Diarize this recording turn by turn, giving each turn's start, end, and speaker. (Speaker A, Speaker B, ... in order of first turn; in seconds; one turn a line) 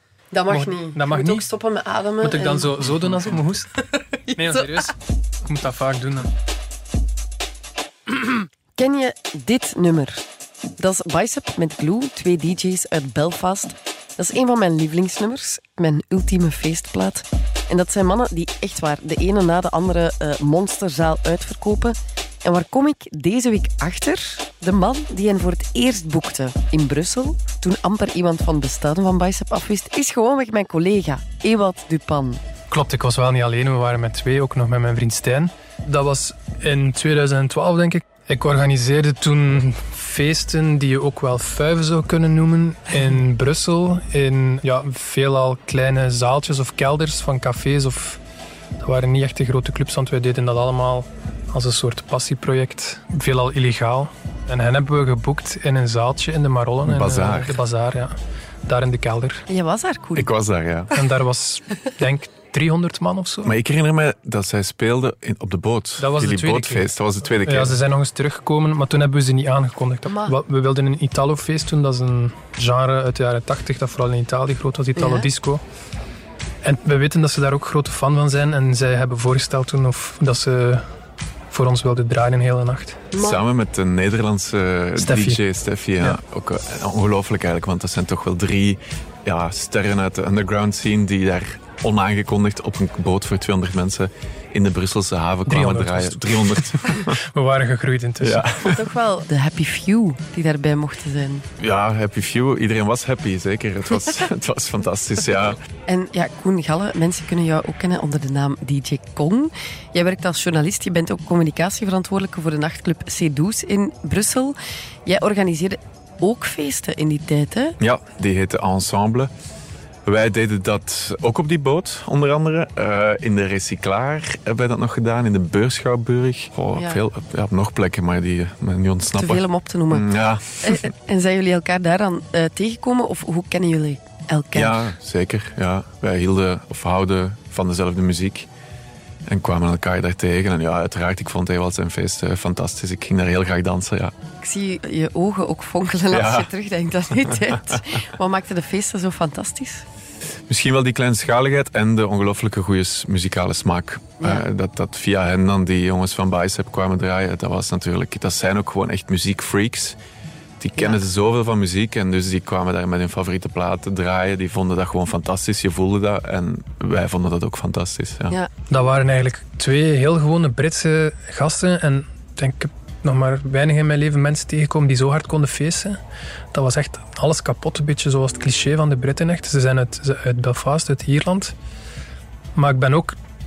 Speaker A: 0.3-2.8
Speaker B: 0.5-1.4
Speaker B: 2.2-3.7
Speaker A: 4.3-4.9
Speaker B: 4.3-4.9
Speaker B: 5.5-6.3
Speaker A: 8.2-10.2
Speaker A: 10.8-32.4
Speaker B: 32.7-48.2
Speaker B: 48.8-59.4
Speaker C: 56.8-57.6
Speaker A: 59.5-60.3
Speaker C: 60.1-60.9
Speaker B: 60.9-63.5
Speaker C: 63.4-67.8
Speaker B: 66.0-66.9
Speaker B: 67.4-75.6
Speaker A: 70.0-70.3
Speaker A: 75.0-75.3
Speaker B: 76.6-80.9
Speaker B: 81.5-83.1
Speaker A: 83.1-83.4
Speaker C: 83.2-97.2
Speaker B: 85.0-85.4
Speaker B: 95.5-98.5
Speaker C: 98.2-98.8
Speaker A: 98.7-101.5
Speaker C: 101.6-105.6
Speaker A: 105.9-117.8
Speaker C: 117.8-119.3
Speaker C: 120.0-130.9
Speaker A: 126.8-127.0
Speaker A: 129.1-130.1
Speaker A: 130.6-134.9
Speaker C: 134.5-138.5
Speaker C: 139.3-144.1
Speaker A: 144.4-149.8
Speaker C: 146.1-146.5
Speaker C: 147.3-147.9
Speaker C: 150.5-160.0
Speaker A: 154.2-154.4
Speaker C: 160.6-168.4
Speaker B: 168.7-176.0
Speaker B: 176.5-181.5
Speaker B: 182.5-183.2